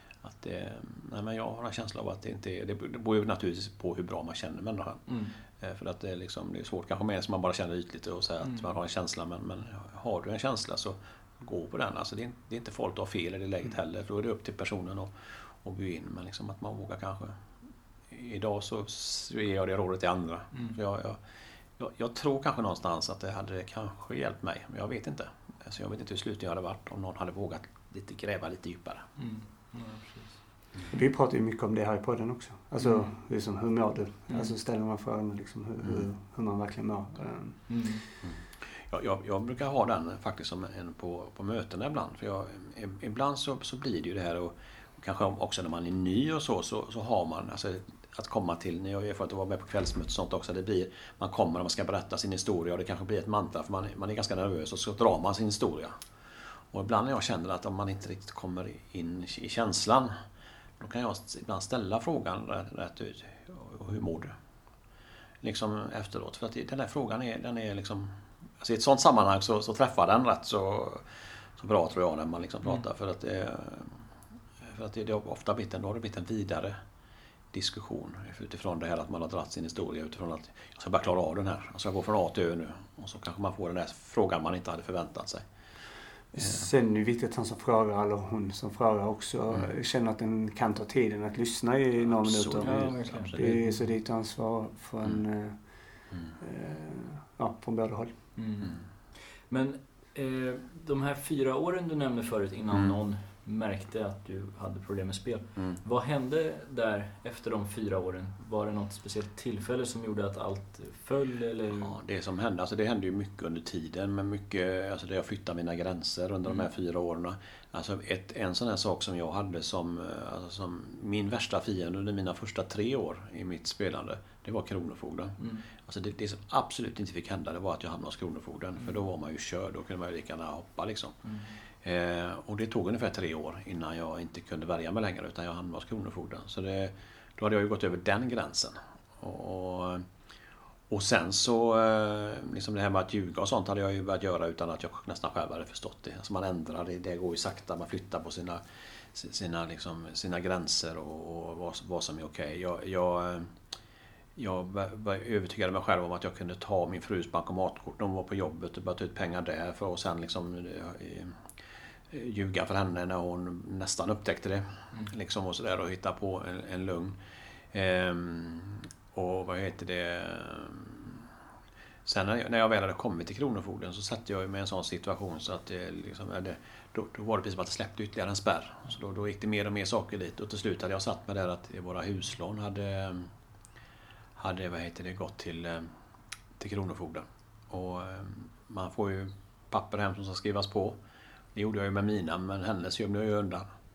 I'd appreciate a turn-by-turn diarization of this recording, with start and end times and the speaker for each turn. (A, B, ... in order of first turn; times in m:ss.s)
0:00.2-0:05.0 A
0:05.1-0:05.4 B
0:05.6-0:17.4 A
0:18.1-0:21.2 A
0:21.8-0:29.1 A
0:29.2-0:30.4 B
0:30.9-0:37.6 C
0:37.7-0:38.0 B
0:38.2-0:56.0 A
0:56.7-1:00.1 A
1:00.8-1:04.3 A
1:05.4-1:14.0 A
1:14.6-1:16.8 A
1:17.5-1:25.4 A
1:26.3-1:35.6 C
1:32.2-1:33.6 A
1:32.6-1:33.8 B
1:36.4-1:38.1 C
1:38.4-1:38.8 B
1:39.5-1:51.9 B
1:51.8-2:11.2 A
2:05.4-2:05.7 B
2:11.8-2:20.1 A
2:20.9-2:28.6 A
2:29.1-2:33.5 A
2:34.4-2:41.4 A
2:42.1-2:47.2 A
2:47.7-2:51.3 A
2:52.0-3:03.3 A
3:04.4-3:05.9 A
3:06.6-3:11.0 A
3:11.5-3:13.7 A